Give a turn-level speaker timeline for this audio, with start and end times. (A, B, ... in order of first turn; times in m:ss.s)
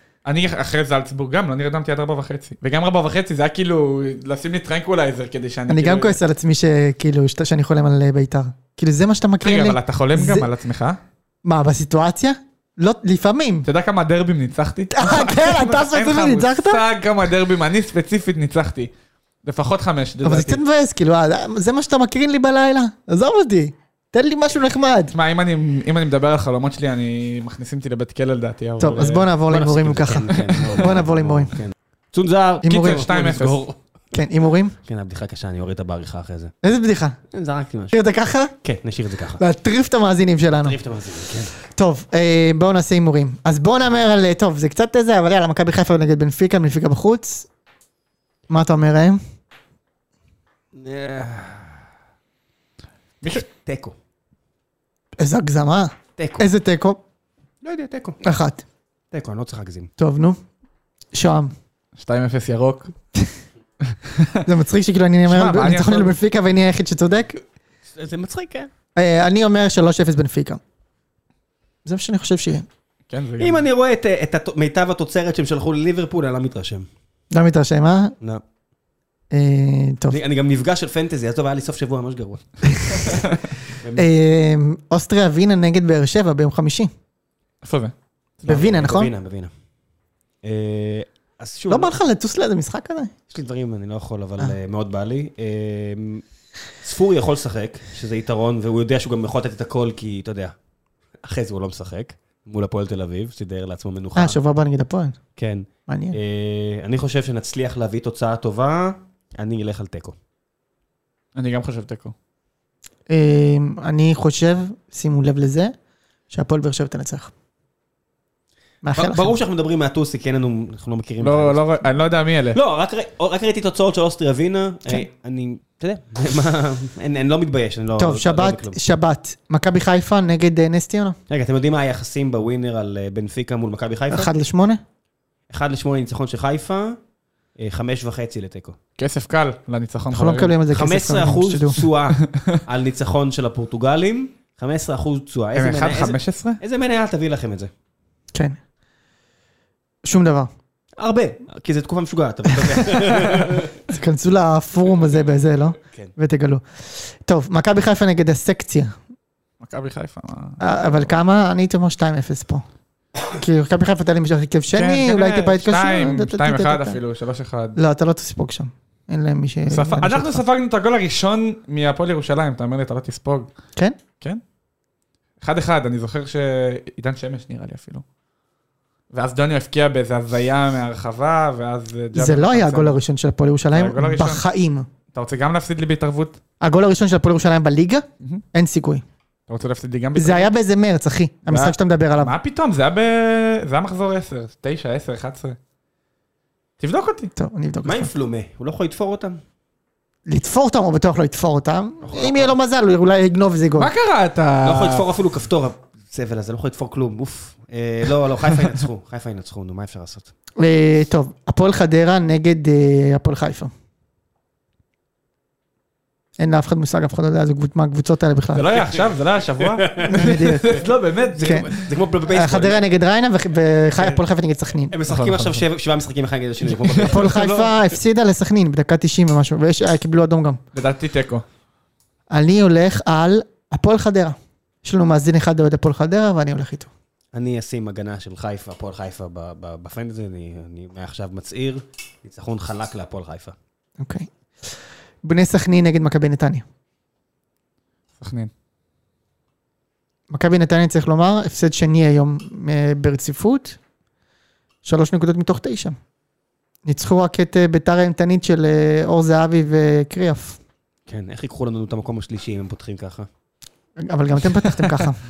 0:00.2-0:06.2 A
0:05.7-0:10.5 B
0:09.4-0:11.0 A
0:11.4-0:13.7 B
0:13.6-0:18.9 A
0:14.9-0:16.8 B
0:19.4-0:20.6 A
0:20.2-0:25.1 B
0:25.1-0:29.3 A
0:28.8-0:31.5 B
0:28.9-0:33.8 C
0:30.4-0:30.8 A
0:32.6-0:33.1 B
0:32.6-0:33.6 A
0:34.1-0:34.7 B
0:34.8-0:36.5 C
0:36.6-0:37.2 B
0:37.3-0:37.9 C
0:37.9-0:38.5 B
0:38.6-0:39.4 C
0:39.4-0:40.8 B
0:40.6-0:41.5 C
0:41.6-0:47.5 B
0:48.5-0:49.2 B
0:50.7-0:51.8 C
0:53.3-0:53.9 C
0:55.2-0:57.0 B
0:56.2-0:56.4 C
0:57.6-0:58.2 C
0:58.2-0:58.6 B
0:59.1-0:59.9 C
1:00.0-1:00.4 B
1:01.1-1:01.5 B
1:02.0-1:02.9 A
1:03.8-1:04.4 A
1:04.4-1:07.4 B
1:05.2-1:06.2 A
1:07.9-1:08.7 C
1:09.0-1:10.6 B
1:11.8-1:12.6 B
1:13.1-1:13.6 A
1:13.4-1:16.9 C
1:17.3-1:18.1 B
1:19.3-1:20.2 B
1:20.1-1:23.2 C
1:22.7-1:23.2 B
1:23.7-1:24.1 C
1:24.0-1:26.9 B
1:27.6-1:28.7 A
1:28.4-1:29.1 B
1:28.4-1:29.5 C
1:30.4-1:32.0 C
1:31.7-1:33.1 B
1:33.3-1:36.2 C
1:36.8-1:40.5 C
1:41.2-1:44.4 C
1:44.2-1:45.2 B
1:45.4-1:50.2 C
1:45.9-1:46.2 B
1:51.3-1:52.1 A
1:53.1-1:55.7 B
1:56.3-1:57.3 B
1:58.8-1:59.3 B
1:58.9-2:01.6 C
2:01.2-2:02.6 A
2:02.5-2:08.9 C
2:08.0-2:11.2 B
2:11.3-2:14.3 C
2:14.1-2:14.8 B
2:15.5-2:17.0 C
2:17.6-2:18.8 C
2:19.0-2:20.6 A
2:20.1-2:21.8 B
2:20.7-2:27.7 C
2:22.2-2:22.6 A
2:25.5-2:26.6 A
2:30.0-2:30.5 B
2:31.0-2:33.7 C
2:33.9-2:39.0 B
2:39.6-2:41.1 A
2:40.6-2:42.6 B
2:43.3-2:47.0 B
2:44.7-2:47.8 A
2:47.8-2:50.4 B
2:49.7-2:53.5 A
2:55.4-2:58.0 A
2:59.1-3:03.0 A
3:02.1-3:04.9 B
3:03.7-3:04.4 A
3:05.1-3:06.4 A
3:06.6-3:09.0 B
3:09.5-3:10.5 A
3:10.2-3:12.3 B
3:11.5-3:15.6 A
3:16.8-3:17.3 A
3:17.4-3:18.1 B
3:17.8-3:19.4 C
3:20.3-3:23.9 B
3:22.0-3:22.5 C
3:23.8-3:25.0 A
3:24.6-3:30.3 C
3:30.6-3:33.7 B
3:36.4-3:38.7 B
3:38.5-3:41.9 A
3:39.6-3:40.8 C
3:40.1-3:40.8 B
3:41.3-3:42.8 C
3:41.4-3:41.7 B
3:42.3-3:44.9 B
3:44.9-3:47.6 C
3:45.0-3:45.6 A
3:46.8-3:47.7 A
3:47.0-3:50.6 B
3:50.7-3:51.4 A
3:52.3-3:56.9 B
3:57.3-4:03.5 C
4:04.0-4:04.3 B
4:05.2-4:06.6 B
4:08.2-4:08.5 A
4:10.3-4:13.8 B
4:14.8-4:16.0 B
4:16.8-4:20.6 B
4:21.1-4:23.3 C
4:24.0-4:25.2 B